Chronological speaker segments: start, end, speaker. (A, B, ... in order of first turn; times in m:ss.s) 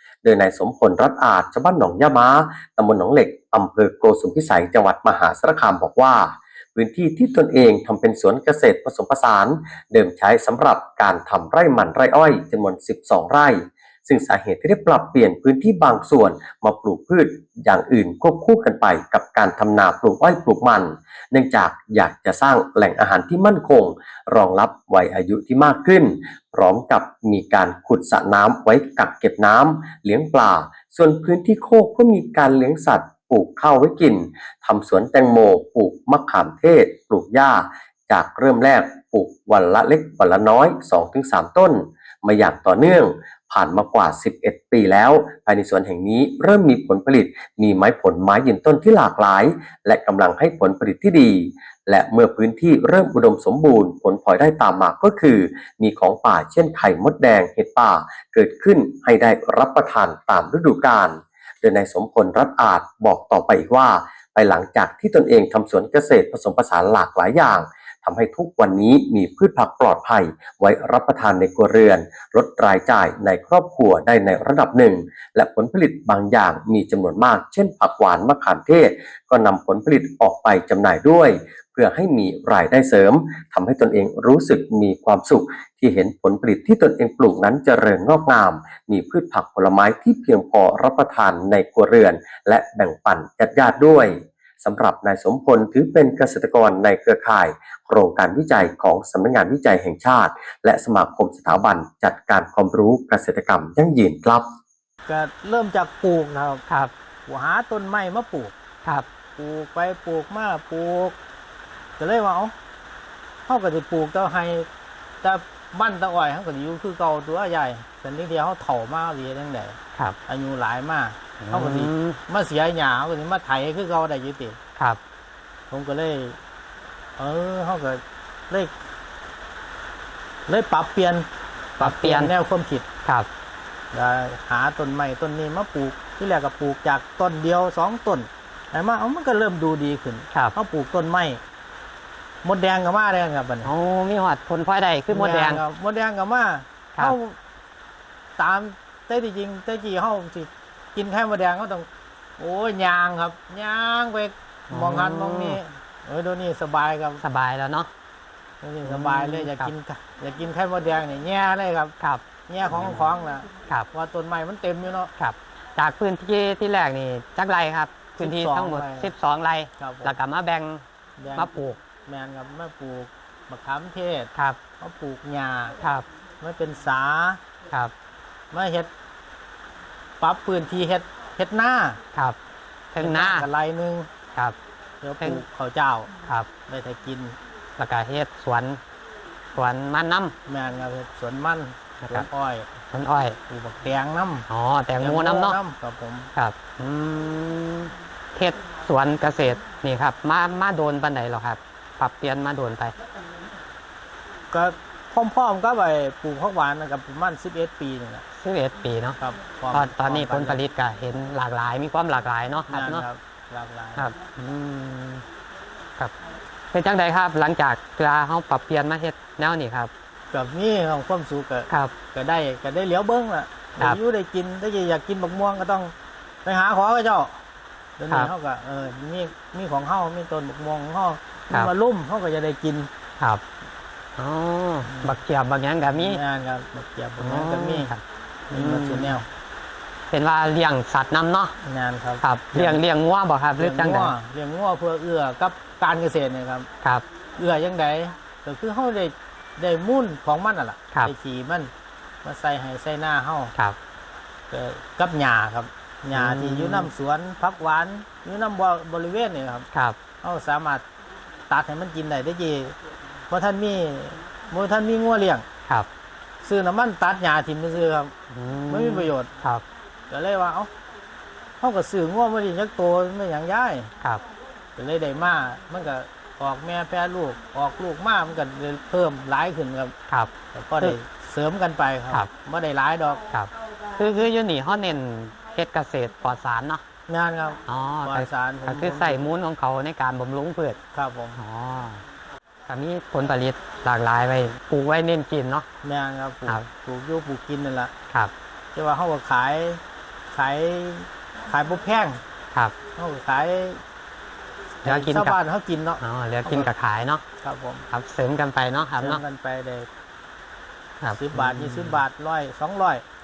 0:00.2-1:44.5 A
1:45.0-1:46.6 B
1:47.2-1:48.5 B
1:49.4-1:51.2 B
1:52.0-1:52.5 B
1:53.5-1:54.7 B
1:55.2-2:04.6 B
2:01.4-2:02.2 C
2:05.7-2:06.4 B
2:07.2-2:08.8 B
2:10.5-2:12.9 B
2:11.8-2:12.3 C
2:13.9-2:21.4 B
2:22.4-2:23.7 B
2:23.6-2:25.6 C
2:25.1-2:27.4 B
2:28.4-2:31.9 B
2:32.4-2:37.2 B
2:34.7-2:35.6 C
2:37.2-2:37.9 C
2:38.6-2:41.9 B
2:38.8-2:39.7 C
2:42.0-2:43.9 C
2:42.5-2:45.1 B
2:45.2-2:50.8 C
2:48.2-2:49.1 B
2:49.8-2:50.1 B
2:51.2-2:55.8 B
2:51.3-2:51.8 C
2:55.8-2:56.0 C
2:56.4-2:57.4 B
2:58.5-2:58.9 B
3:00.2-3:02.0 B
3:02.9-3:03.5 C
3:03.0-3:04.1 B
3:05.0-3:06.1 B
3:06.7-3:07.4 B
3:07.8-3:08.8 C
3:09.5-3:10.3 C
3:10.4-3:12.7 B
3:12.0-3:12.3 C
3:12.9-3:13.4 C
3:13.5-3:14.5 B
3:14.5-3:15.6 C
3:15.0-3:16.3 B
3:16.3-3:22.9 C
3:24.5-3:28.2 B
3:28.3-3:29.2 C
3:29.2-3:30.6 B
3:29.7-3:33.0 C
3:32.7-3:34.1 B
3:34.0-3:35.2 C
3:36.7-3:39.9 C
3:40.3-3:47.4 B
3:41.7-3:41.9 C
3:48.0-3:52.9 B
3:54.2-3:56.2 C
3:54.8-3:55.2 B
3:55.9-3:57.9 B
3:57.2-3:59.2 C
3:58.5-3:59.3 B
4:00.1-4:01.5 C
4:01.6-4:02.8 B
4:02.2-4:04.1 C
4:03.6-4:06.7 B
4:07.4-4:11.7 B
4:12.2-4:13.5 B
4:14.5-4:19.7 B
4:16.1-4:16.9 C
4:20.2-4:20.8 B
4:21.5-4:22.8 B
4:23.3-4:25.4 B
4:26.4-4:28.1 B
4:28.3-4:29.6 C
4:28.7-4:29.4 B
4:30.1-4:30.7 B
4:31.6-4:33.9 B
4:34.8-4:39.9 B
4:40.1-4:41.0 C
4:40.5-4:43.3 B
4:43.3-4:46.8 C
4:47.1-4:49.3 B
4:47.6-4:50.8 C
4:50.9-4:51.4 B
4:51.4-4:52.0 C
4:52.7-4:55.7 C
4:55.8-4:57.9 B
4:58.7-5:02.2 B
5:03.0-5:03.8 B
5:04.8-5:06.7 B
5:04.8-5:05.4 C
5:06.0-5:07.2 C
5:07.4-5:07.8 B
5:07.9-5:09.2 C
5:09.0-5:09.9 B
5:11.0-5:12.0 C
5:11.1-5:13.0 B